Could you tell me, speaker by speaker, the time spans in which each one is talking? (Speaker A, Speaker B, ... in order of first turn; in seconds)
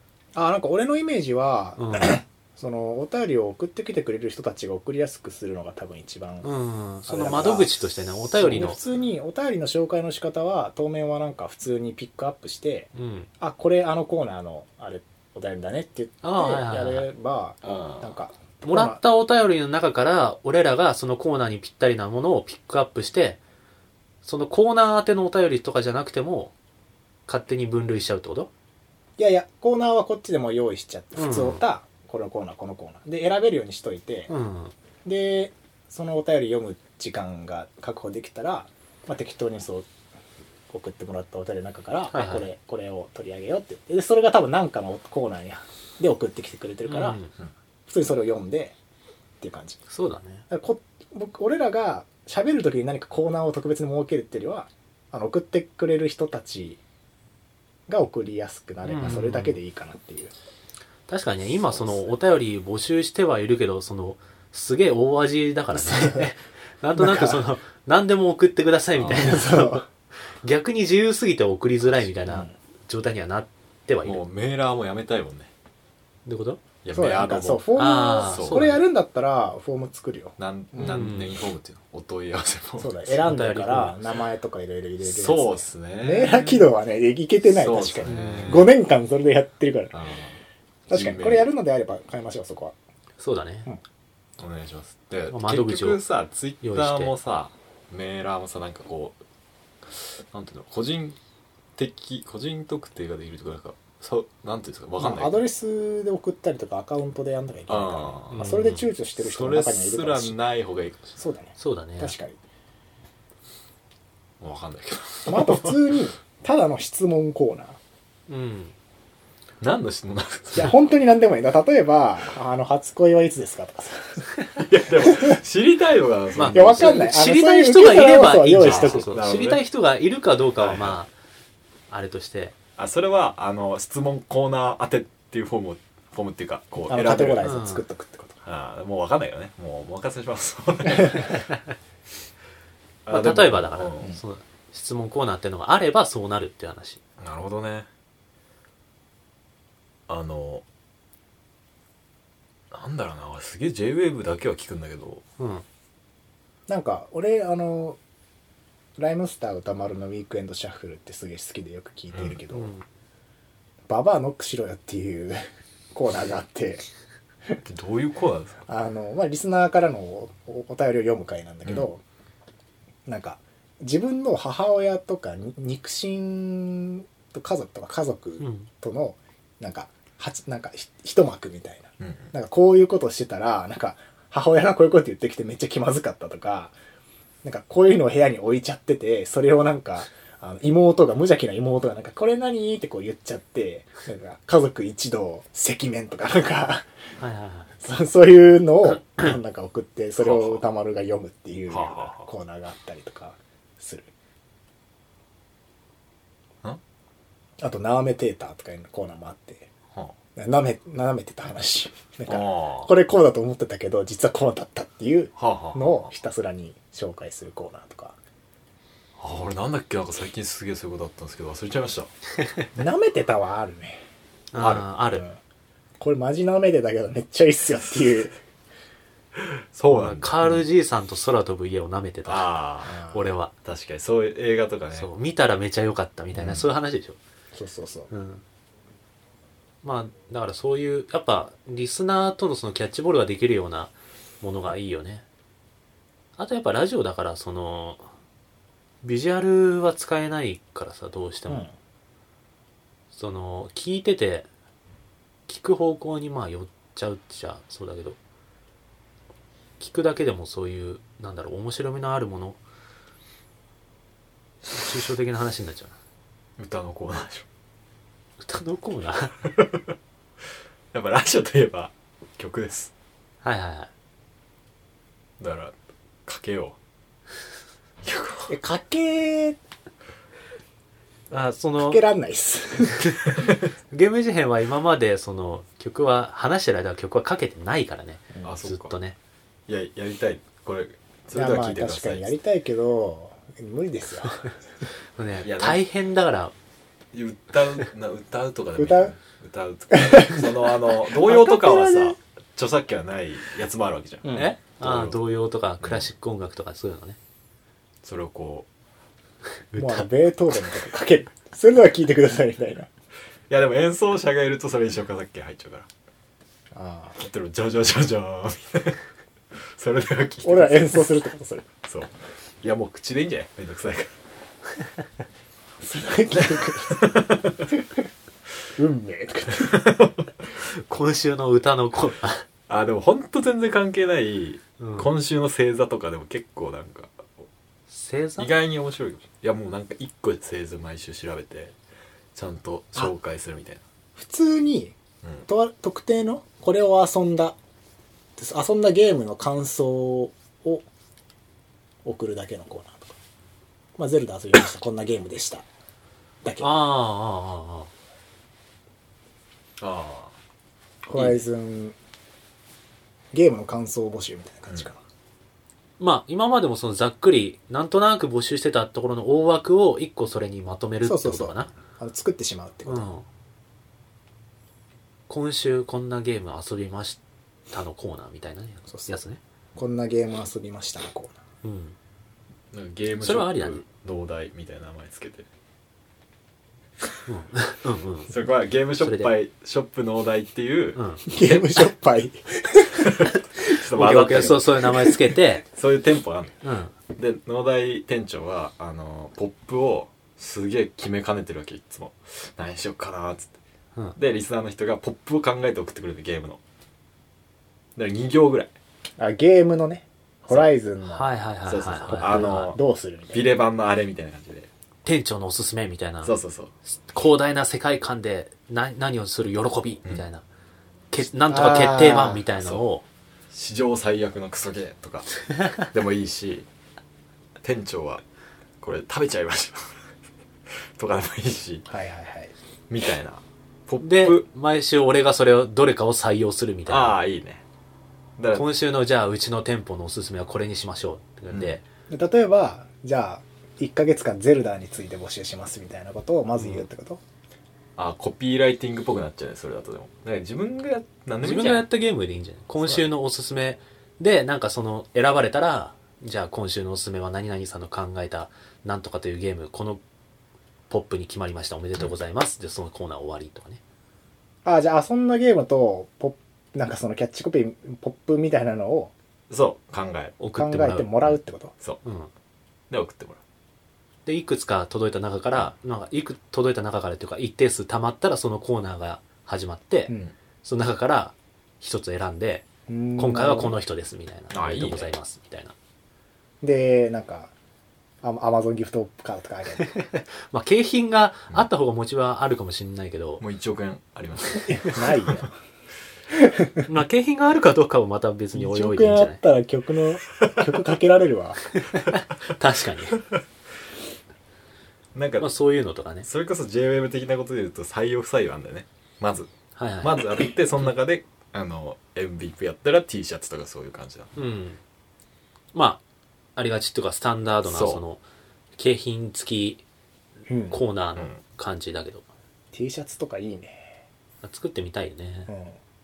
Speaker A: 0.3-6.5, 7.1-7.7, 8.3-19.0, 29.2-34.3, 35.0-39.9, 40.7-47.2, 47.9-48.8, 49.4-49.8, 50.5-56.8, 57.9-60.3, 65.7-66.3, 67.0-67.4, 69.1-69.9, 72.3-72.5, 76.9-81.1, 82.8-89.9, 90.9-92.8, 105.0-110.3, 111.2-112.4, 115.3-117.8, 120.5-124.3, 124.9-125.4, 126.5-129.1, 136.9-138.4, 156.7-158.0, 159.0-162.7, 163.9-165.4, 165.9-166.8, 168.7-172.0, 173.1-186.8, 187.4-196.9, 197.8-204.1, 207.6-209.7, 210.4-218.2, 222.8-224.0, 226.0-228.3, 232.9-233.2, 237.5-238.1, 251.5-251.7, 278.5-279.6, 281.8-283.2, 291.3-294.5, 298.8-299.1, 299.9-302.1, 304.2-304.5, 309.8-312.9, 316.7-317.2, 320.4-321.7, 325.8-327.0, 328.8-329.8, 344.1-344.9, 345.5-347.6, 348.4-350.9, 352.1-353.1, 354.0-355.6, 356.4-356.7, 361.1-361.9, 363.3-365.0, 371.0-373.1, 378.9-379.2, 379.8-381.4, 391.3-393.1, 409.2-411.3, 412.1-413.5, 421.5-422.4, 431.9-432.5, 442.1-447.2, 464.6-469.1, 470.5-471.7, 482.9-483.8, 486.6-487.5, 488.2-489.9, 494.6-495.5, 496.3-496.9, 498.5-501.6, 520.5-520.8, 522.7-524.0, 525.5-525.8
Speaker B: 1.8-2.2, 6.4-8.8, 12.9-13.3, 16.2-17.1, 18.6-23.4, 24.2-26.5, 27.3-28.5, 31.1-31.6, 34.3-34.7, 42.1-42.5, 46.9-47.3, 49.9-50.4, 58.8-59.6, 61.1-69.8, 70.4-74.2, 76.3-76.6, 77.8-78.8, 80.8-81.3, 83.1-84.0, 88.1-88.7, 93.2-93.7, 95.3-96.0, 96.6-97.1, 108.3-108.9, 111.6-112.1, 118.3-118.7, 126.4-131.1, 131.9-132.6, 137.4-137.8, 143.1-147.0, 155.4-155.6, 162.5-162.8, 178.4-178.7, 197.2-197.7, 224.5-225.3, 229.9-233.5, 234.9-237.2, 238.1-238.4, 239.8-245.2, 246.4-248.1, 249.0-251.7, 253.1-254.5, 255.5-258.2, 259.8-262.6, 264.7-265.9, 268.4-269.4, 273.4-273.9, 281.3-282.0, 283.0-283.3, 283.9-289.2, 295.2-296.5, 304.3-307.2, 309.7-310.1, 330.7-332.4, 334.8-335.1, 337.9-338.5, 356.6-357.9, 366.0-371.7, 372.9-373.2, 375.3-377.2, 377.7-379.4, 381.6-381.9, 383.2-383.8, 387.3-388.3, 389.0-389.3, 390.9-391.2, 393.6-395.6, 396.6-396.9, 411.0-412.8, 415.1-416.4, 416.9-420.4, 421.1-423.0, 434.0-437.2, 438.5-441.8, 451.4-460.0, 460.9-463.8, 470.4-471.1, 472.0-472.3, 474.2-480.1, 480.6-482.6, 483.2-485.7, 489.8-493.4, 496.9-499.4, 501.7-503.2, 505.4-506.3, 509.8-510.2, 514.4-514.8, 515.7-516.0, 516.6-518.2, 518.8-519.8, 520.7-522.2, 524.4-525.5
Speaker C: 17.6-18.1, 61.7-62.1, 69.0-69.3, 74.0-75.5, 76.8-78.7, 80.4-82.9, 85.0-86.7, 87.5-88.7, 89.9-90.4, 90.9-91.5, 94.4-99.2, 100.0-101.2, 101.8-105.4, 107.7-108.5, 109.2-111.2, 114.4-115.8, 119.6-120.8, 124.6-127.1, 128.6-129.6, 130.6-131.0, 132.8-137.5, 138.4-141.5, 143.1-144.1, 147.2-147.9, 150.1-150.6, 152.7-155.2, 162.1-162.4, 167.6-168.6, 182.0-182.3, 200.2-200.6, 201.7-202.3, 212.3-212.9, 215.4-216.1, 219.2-222.1, 224.6-224.8, 229.3-230.6, 232.3-233.0, 233.6-235.1, 236.3-236.7, 266.6-267.4, 270.9-272.9, 275.4-275.8, 276.3-276.8, 278.0-278.5, 288.4-288.9, 289.7-292.3, 295.4-295.8, 297.1-305.2, 305.8-306.1, 308.0-308.7, 313.5-315.9, 317.2-319.0, 319.7-321.1, 321.8-324.1, 326.6-327.7, 329.6-330.3, 332.7-337.4, 338.4-341.8, 342.4-343.8, 359.8-360.3, 382.7-385.4, 388.3-391.9, 393.0-394.9, 395.7-396.6, 397.1-403.5, 404.1-406.6, 407.9-408.7, 411.6-412.8, 413.3-414.7, 416.2-416.7, 422.6-422.8, 423.5-426.7, 427.6-428.2, 428.8-430.0, 431.0-431.9, 432.9-434.4, 436.9-437.6, 438.4-438.6, 441.5-441.8, 448.0-451.9, 469.5-470.4, 472.9-473.4, 484.5-485.1, 493.4-495.4, 505.1-505.5, 506.2-509.5, 510.0-514.3, 517.6-518.0